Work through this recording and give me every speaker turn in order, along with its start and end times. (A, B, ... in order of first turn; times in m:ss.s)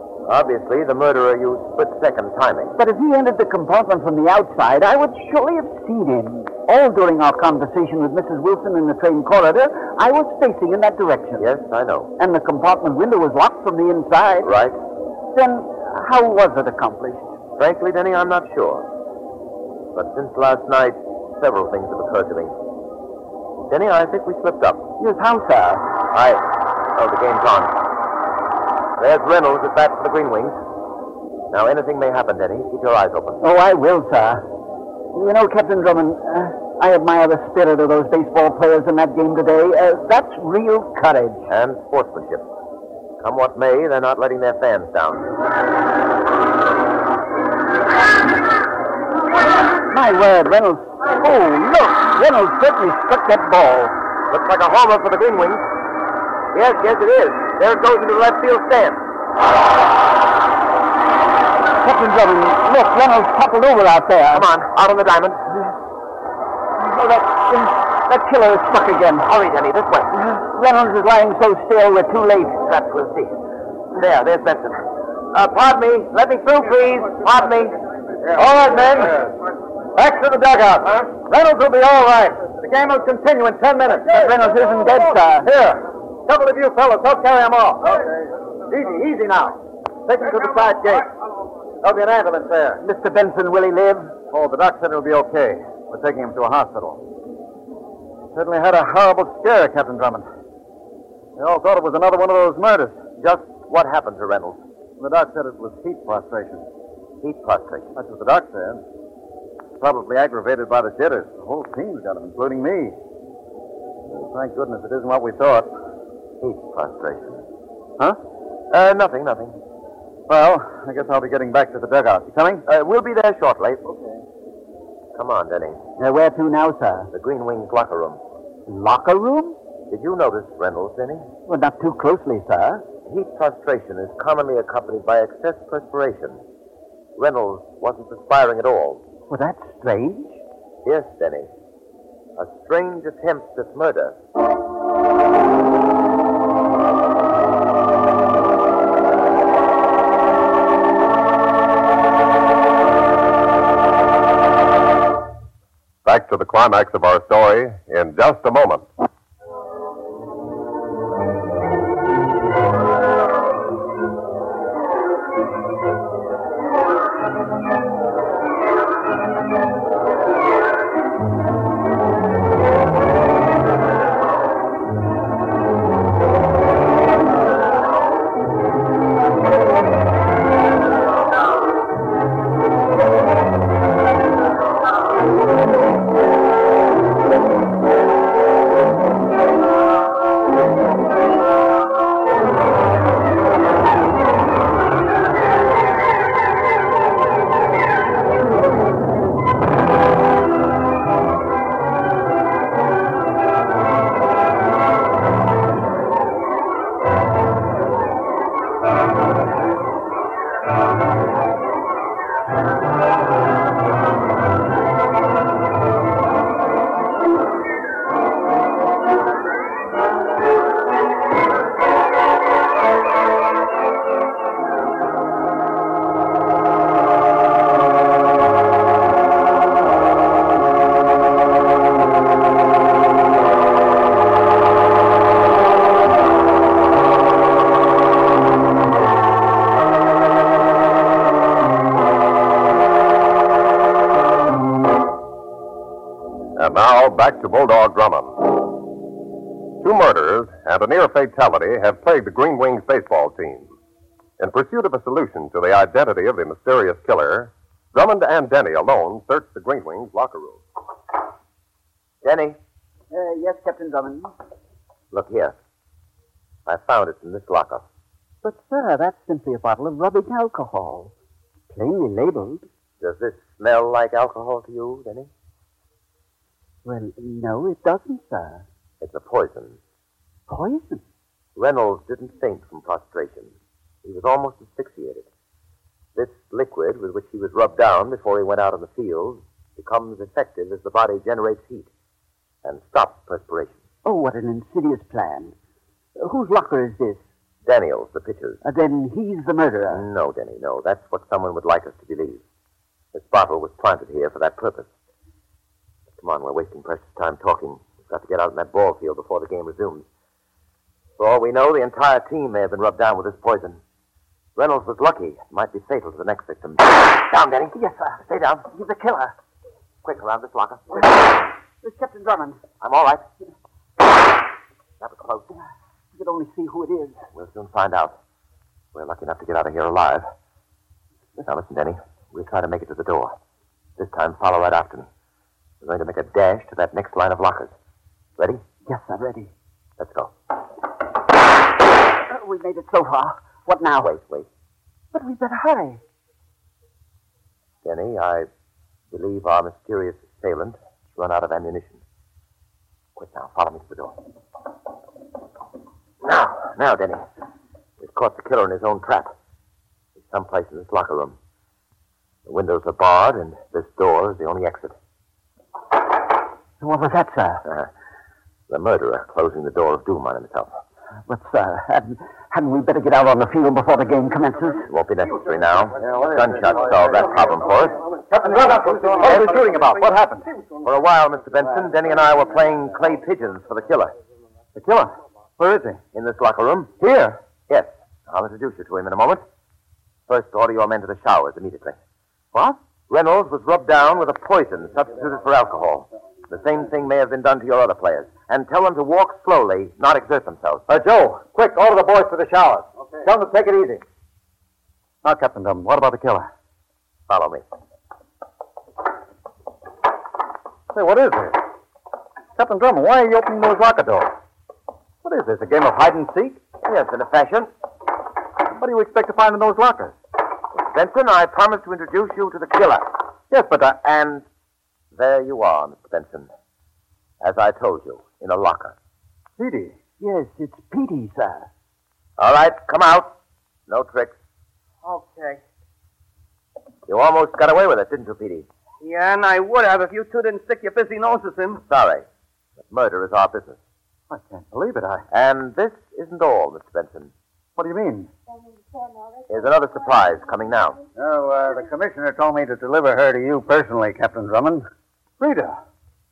0:00.3-0:02.7 A
0:02.8-0:11.5 B
0:11.4-0:12.1 A
0:12.2-0:14.5 B
0:14.4-0:14.8 A
0:15.3-0:17.3 B
0:17.6-0:18.9 A
0:19.9-0:22.5 A
0:23.7-0:24.9 A
0:25.0-0:25.8 B
0:26.1-0:26.4 A
0:27.0-0:27.7 A
0:29.0-0:30.6 A
0:31.5-0:33.4 A
0:33.4-0:34.4 B
0:35.1-0:41.4 B
0:41.5-0:42.5 A
0:43.2-0:45.3 A
0:49.9-0:54.0 B
0:54.3-0:55.6 A
0:56.5-0:59.0 A
1:01.8-1:04.5 B
1:04.3-1:05.4 A
1:06.8-1:09.3 B
1:09.2-1:10.1 A
1:10.1-1:12.6 B
1:12.6-1:13.4 A
1:14.0-1:17.8 A
1:18.2-1:19.4 C
1:20.0-1:31.1 C
1:24.0-1:25.5 B
1:31.8-1:32.8 C
1:32.8-1:34.2 B
1:34.3-1:37.0 C
1:38.3-1:40.3 C
1:41.4-1:43.0 C
1:43.2-1:44.6 A
1:45.0-1:46.7 C
1:47.2-1:47.9 A
1:48.0-1:48.8 C
1:49.8-1:53.0 C
1:54.2-1:55.7 C
1:56.4-1:57.4 A
1:58.7-1:59.6 A
2:00.3-2:02.6 C
2:02.7-2:03.8 A
2:03.8-2:04.2 C
2:05.2-2:05.8 A
2:06.0-2:07.1 B
2:07.1-2:08.2 A
2:08.7-2:09.6 B
2:09.9-2:11.3 A
2:11.5-2:12.9 B
2:13.1-2:16.4 A
2:17.2-2:19.0 A
2:19.3-2:20.4 B
2:20.8-2:21.5 A
2:22.4-2:24.2 A
2:36.0-2:38.9 D
4:06.6-4:08.6 D
4:09.8-4:13.7 D
4:14.4-4:20.6 D
4:22.2-4:22.6 A
4:23.1-4:24.3 B
4:25.1-4:25.6 A
4:26.7-4:27.8 A
4:28.4-4:31.1 B
4:31.7-4:32.7 B
4:33.0-4:35.3 A
4:36.8-4:38.7 B
4:39.0-4:39.8 A
4:40.5-4:41.0 B
4:41.6-4:45.3 A
4:46.2-4:51.9 A
4:52.6-4:53.8 A
4:54.0-4:55.6 B
4:56.2-4:57.2 B
4:57.6-4:58.6 A
4:58.6-5:00.1 B
4:59.9-5:02.4 A
5:03.1-5:04.9 A
5:06.2-5:10.1 A
5:11.2-5:13.8 A
5:14.6-5:18.7 A
5:17.7-5:19.4 B
5:20.0-5:21.3 A
5:21.8-5:22.6 B
5:22.8-5:23.2 A
5:25.0-5:25.5 A
5:26.2-5:27.2 B
5:27.3-5:28.2 A
5:28.9-5:30.3 A
5:31.4-5:33.4 A
5:34.0-5:35.1 A
5:35.8-5:37.7 A
5:38.9-5:39.5 B
5:40.0-5:40.3 A
5:42.3-5:44.2 B
5:44.0-5:44.5 A
5:45.1-5:46.0 B
5:47.8-5:48.5 A
5:49.1-5:52.0 A
5:53.2-5:54.2 A
5:56.2-5:57.2 A
5:58.0-5:59.3 A
6:00.2-6:01.4 A
6:02.5-6:04.9 A
6:06.8-6:07.6 B
6:08.7-6:10.8 A
6:11.3-6:14.9 B
6:14.9-6:18.0 A
6:16.0-6:16.8 C
6:18.1-6:20.6 C
6:19.2-6:19.7 A
6:20.8-6:24.2 A
6:24.8-6:26.0 C
6:26.1-6:26.9 A
6:27.0-6:27.4 C
6:27.7-6:29.4 A
6:30.3-6:32.0 A
6:33.1-6:40.9 A
6:40.9-6:44.0 C
6:45.2-6:46.5 C
6:47.3-6:47.6 A
6:50.9-6:51.6 C
6:52.6-6:54.3 C
6:55.2-6:56.6 C
6:56.8-6:57.7 A
6:58.8-7:00.2 C
7:00.8-7:03.2 A
7:03.5-7:04.0 C
7:04.0-7:04.4 A
7:05.2-7:06.5 A
7:07.4-7:09.0 A
7:09.6-7:10.0 C
7:10.2-7:11.7 B
7:12.4-7:13.4 A
7:13.9-7:14.4 A
7:15.0-7:15.6 E
7:17.1-7:18.7 A
7:19.0-7:21.8 E
7:21.8-7:22.2 A
7:22.9-7:23.8 A
7:24.3-7:25.2 C
7:25.3-7:27.3 A
7:27.8-7:28.3 C
7:29.5-7:31.0 A
7:31.2-7:34.8 C
7:35.4-7:35.8 C